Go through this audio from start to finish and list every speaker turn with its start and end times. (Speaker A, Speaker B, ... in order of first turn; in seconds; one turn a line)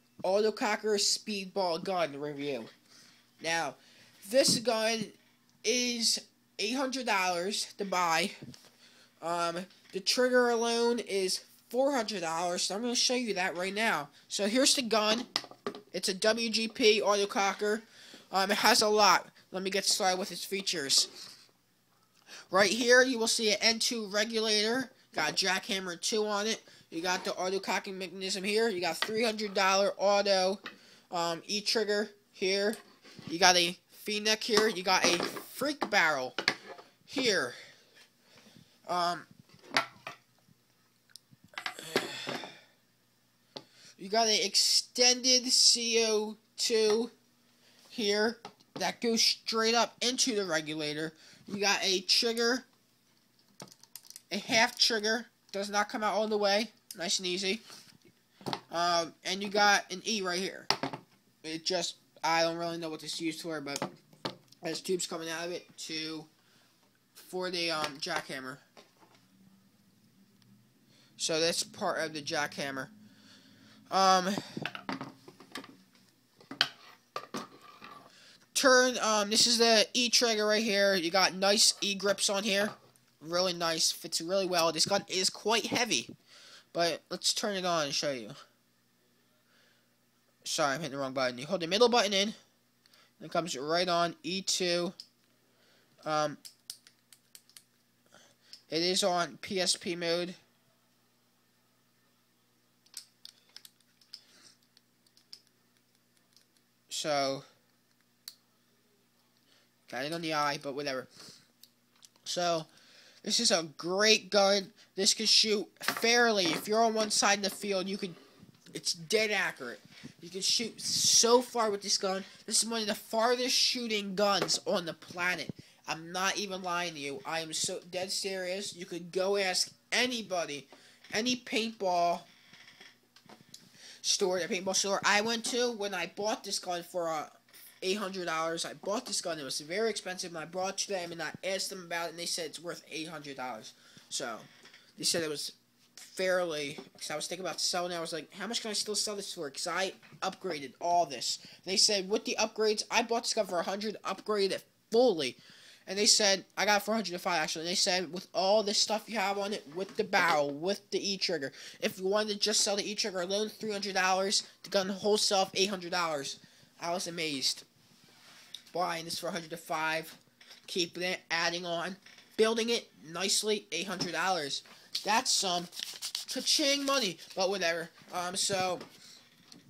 Speaker A: 0.2-2.7
Speaker A: 3.4-8.3
Speaker A: 9.2-15.3
Speaker A: 15.9-21.1
Speaker A: 22.5-36.4
Speaker A: 37.1-37.6
Speaker A: 38.9-39.3
Speaker A: 41.8-42.4
Speaker A: 44.0-47.1
Speaker A: 47.9-52.7
Speaker A: 54.3-57.6
Speaker A: 58.7-60.7
Speaker A: 61.4-63.9
Speaker A: 64.6-66.3
Speaker A: 67.1-68.6
Speaker A: 71.2-72.9
Speaker A: 73.9-74.6
Speaker A: 78.5-86.1
Speaker A: 86.7-88.3
Speaker A: 90.4-92.3
Speaker A: 93.2-94.9
Speaker A: 96.0-96.4
Speaker A: 98.7-100.4
Speaker A: 106.9-107.4
Speaker A: 109.9-111.1
Speaker A: 112.2-112.7
Speaker A: 113.2-118.2
Speaker A: 118.7-132.3
Speaker A: 134.0-167.6
Speaker A: 168.7-178.8